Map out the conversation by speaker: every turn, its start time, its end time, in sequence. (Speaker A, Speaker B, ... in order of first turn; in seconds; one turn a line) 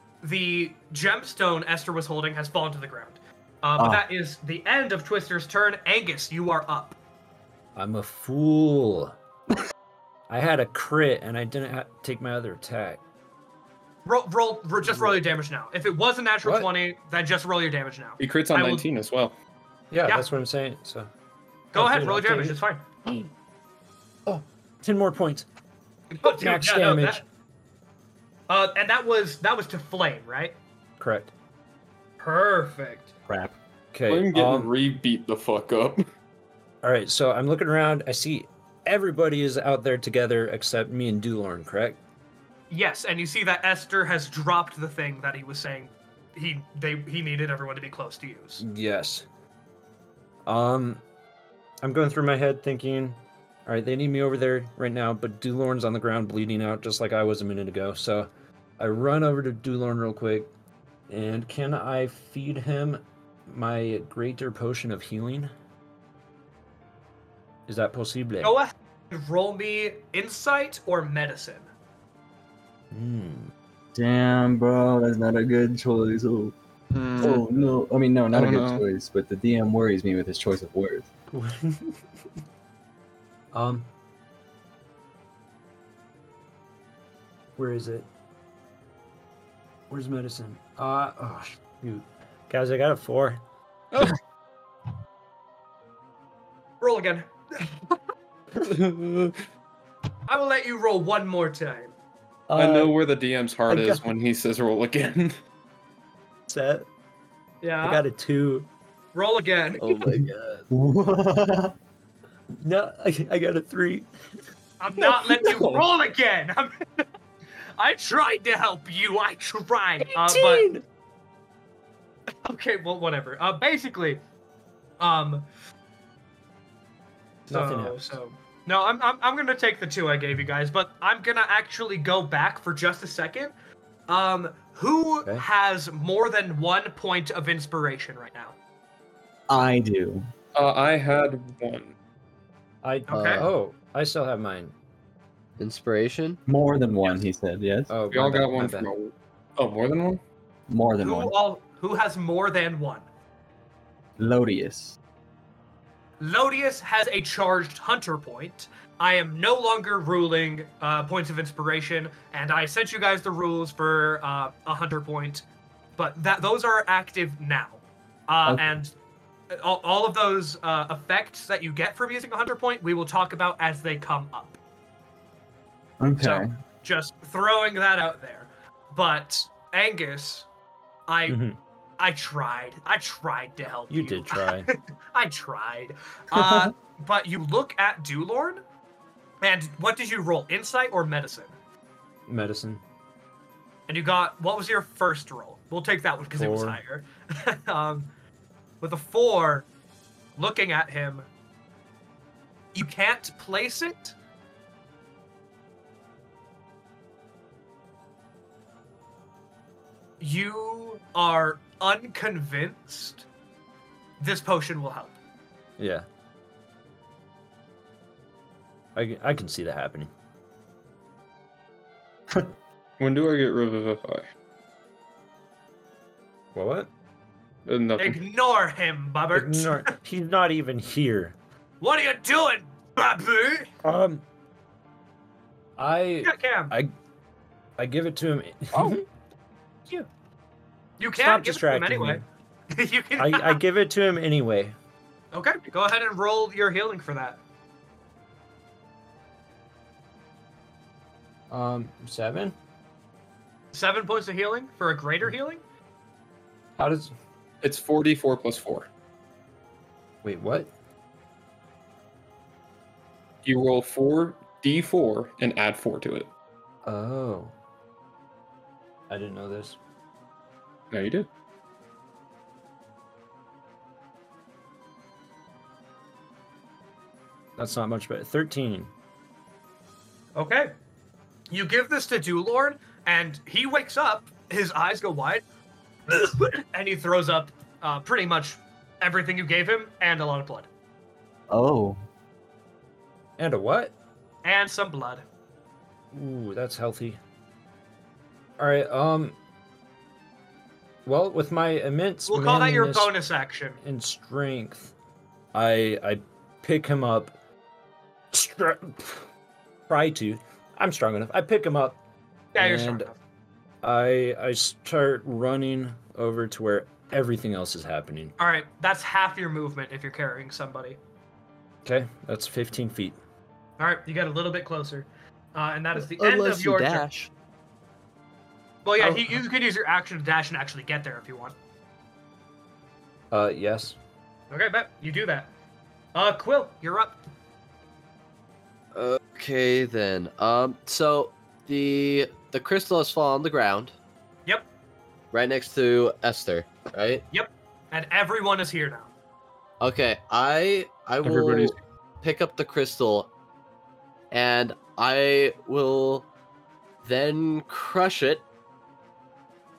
Speaker A: 0.2-7.0
Speaker B: 3.8-4.0
Speaker C: 7.8-9.1
Speaker C: 10.3-13.0
Speaker A: 14.1-18.9
Speaker C: 14.8-15.2
Speaker C: 16.4-16.7
Speaker D: 18.2-19.4
Speaker C: 19.9-21.1
Speaker A: 21.7-22.9
Speaker C: 21.8-23.3
Speaker C: 24.3-25.5
Speaker A: 26.1-27.2
Speaker C: 26.2-27.2
Speaker A: 28.5-30.6
Speaker C: 31.0-31.3
Speaker A: 32.2-33.1
Speaker B: 33.3-33.5
Speaker C: 33.9-34.7
Speaker D: 34.1-36.0
Speaker C: 36.8-42.0
Speaker A: 42.7-48.6
Speaker C: 48.6-49.3
Speaker C: 50.5-51.0
Speaker C: 51.8-60.5
Speaker C: 61.1-65.5
Speaker C: 67.7-68.5
Speaker A: 68.4-71.7
Speaker C: 72.9-73.5
Speaker B: 74.0-76.5
Speaker D: 76.9-77.4
Speaker B: 77.2-81.1
Speaker D: 78.3-78.8
Speaker C: 81.3-82.0
Speaker C: 83.5-83.9
Speaker C: 87.6-88.1
Speaker C: 89.9-93.4
Speaker D: 93.9-94.2
Speaker A: 96.8-98.0
Speaker D: 98.6-99.4
Speaker A: 100.3-101.9
Speaker C: 102.5-103.0
Speaker D: 102.5-105.4
Speaker C: 103.7-104.0
Speaker C: 106.5-106.9
Speaker A: 107.6-108.0
Speaker C: 107.8-108.7
Speaker A: 109.1-110.0
Speaker E: 109.8-110.7
Speaker B: 110.7-111.7
Speaker C: 112.6-114.1
Speaker A: 114.8-117.0
Speaker D: 115.5-115.8
Speaker A: 117.8-120.7
Speaker C: 120.0-120.8
Speaker A: 122.5-124.2
Speaker A: 125.0-125.5
Speaker A: 127.5-133.5
Speaker C: 127.5-128.2
Speaker A: 134.1-138.6
Speaker B: 139.5-140.3
Speaker D: 140.5-141.9
Speaker C: 142.8-144.7
Speaker A: 143.1-143.5
Speaker E: 143.1-143.5
Speaker E: 145.6-146.4
Speaker B: 146.5-147.9
Speaker C: 147.9-148.9
Speaker D: 148.1-150.2
Speaker B: 150.7-151.3
Speaker A: 151.0-153.1
Speaker B: 154.2-155.0
Speaker A: 156.2-165.4
Speaker A: 166.0-168.9
Speaker A: 169.5-174.6
Speaker B: 176.0-176.5
Speaker A: 176.2-180.5
Speaker A: 181.1-181.4
Speaker C: 181.3-181.6
Speaker A: 182.0-188.6
Speaker C: 183.9-184.7
Speaker B: 186.3-186.7
Speaker A: 189.4-191.6
Speaker C: 192.3-192.8
Speaker A: 193.9-198.1
Speaker C: 196.4-196.8
Speaker A: 198.8-199.7
Speaker A: 200.4-201.3
Speaker A: 202.8-204.2
Speaker A: 210.2-213.3
Speaker A: 214.2-215.2
Speaker C: 215.8-216.1
Speaker C: 218.9-220.1
Speaker D: 223.0-224.3
Speaker C: 226.6-226.9
Speaker D: 227.7-228.2
Speaker A: 228.0-229.8
Speaker C: 229.3-231.4
Speaker A: 231.8-233.7
Speaker C: 233.8-234.2
Speaker C: 235.8-236.9
Speaker A: 236.2-236.7
Speaker C: 237.8-239.1
Speaker A: 241.0-242.2
Speaker C: 241.2-242.2
Speaker A: 242.7-243.6
Speaker C: 243.2-244.8
Speaker A: 245.3-247.4
Speaker C: 251.5-252.6
Speaker A: 253.7-255.6
Speaker C: 256.8-257.1
Speaker D: 257.6-258.9
Speaker C: 260.2-260.7
Speaker D: 263.4-266.3
Speaker C: 266.9-267.5
Speaker C: 269.1-269.8
Speaker D: 270.9-271.3
Speaker C: 277.6-278.9
Speaker A: 280.4-280.7
Speaker A: 281.5-285.4
Speaker A: 286.1-290.7
Speaker B: 291.5-292.0
Speaker C: 293.4-293.9
Speaker A: 294.4-295.2
Speaker C: 296.1-297.2
Speaker C: 298.6-299.4
Speaker C: 301.1-303.1
Speaker A: 302.3-303.8
Speaker C: 303.8-304.9
Speaker C: 305.5-307.3
Speaker C: 308.3-309.2
Speaker C: 309.9-312.0
Speaker A: 312.6-313.2
Speaker C: 312.6-313.1
Speaker C: 313.8-318.4
Speaker A: 318.4-321.0
Speaker C: 321.9-323.2
Speaker A: 323.8-327.1
Speaker E: 325.9-327.3
Speaker A: 328.9-331.5
Speaker C: 333.3-334.0
Speaker A: 334.5-335.5
Speaker A: 336.1-337.2
Speaker E: 338.9-343.9
Speaker E: 345.3-347.2
Speaker A: 347.3-349.1
Speaker E: 349.8-353.3
Speaker D: 351.2-351.8
Speaker E: 354.3-356.3
Speaker E: 357.0-358.4